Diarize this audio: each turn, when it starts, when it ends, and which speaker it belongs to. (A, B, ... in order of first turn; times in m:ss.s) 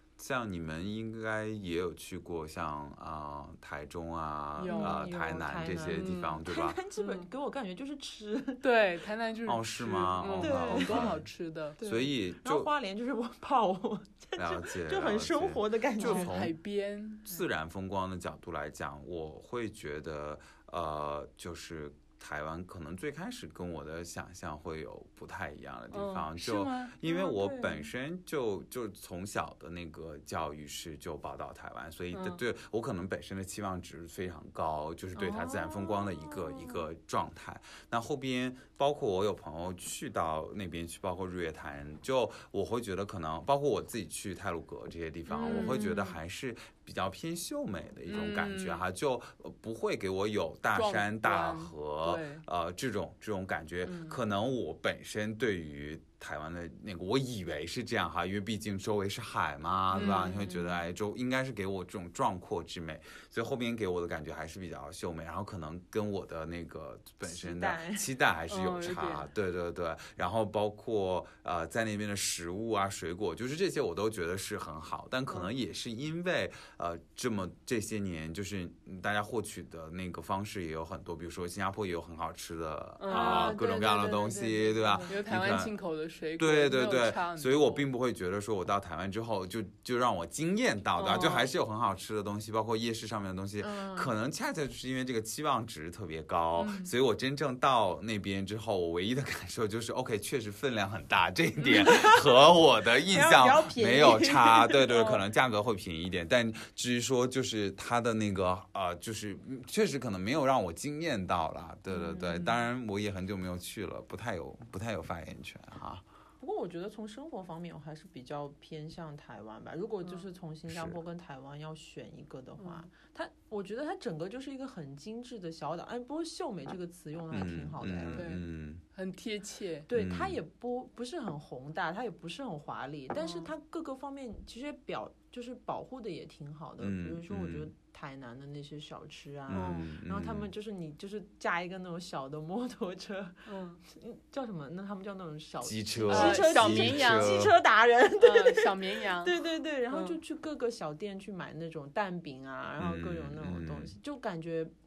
0:00.2-0:06.8 A
0:04.6-0:05.0 B
0:04.6-0:08.6 C
0:05.9-0:06.4 B
0:07.0-0:07.3 B
0:08.6-0:11.8 B
0:09.4-0:11.3 A
0:10.4-0:11.1 C
0:11.8-0:16.3 C
0:11.8-0:12.7 A
0:14.4-0:16.5 A
0:16.0-0:17.4 B
0:17.2-1:25.7 A
0:25.9-0:26.9 B
0:27.0-0:27.9 C
0:32.1-0:32.4 B
0:35.2-0:36.8 C
0:45.3-0:45.8 C
0:45.4-0:46.2 B
0:48.1-0:48.8 B
0:50.7-0:52.4 B
0:53.8-0:54.2 B
0:59.9-1:00.7 B
1:00.0-1:00.5 C
1:07.2-1:08.0 C
1:08.5-1:09.3 B
1:23.0-1:23.6 B
1:23.1-1:25.3 C
1:25.1-1:27.8 B
1:26.4-1:56.0 A
1:31.0-1:31.5 B
1:33.6-1:34.1 C
1:36.6-1:36.9 B
1:41.6-1:42.2 C
1:43.1-1:45.0 C
1:51.9-1:52.4 C
1:52.1-1:52.6 B
1:56.4-2:08.3 C
2:00.7-2:01.0 A
2:02.6-2:02.9 B
2:07.3-2:08.8 A
2:08.1-2:09.9 B
2:09.9-2:34.7 C
2:09.9-2:10.4 A
2:13.2-2:13.5 B
2:16.8-2:17.7 A
2:19.5-2:20.5 A
2:19.5-2:19.9 B
2:23.4-2:23.8 B
2:25.6-2:27.6 A
2:26.1-2:27.5 B
2:28.2-2:29.4 B
2:29.9-2:30.2 B
2:32.8-2:33.9 A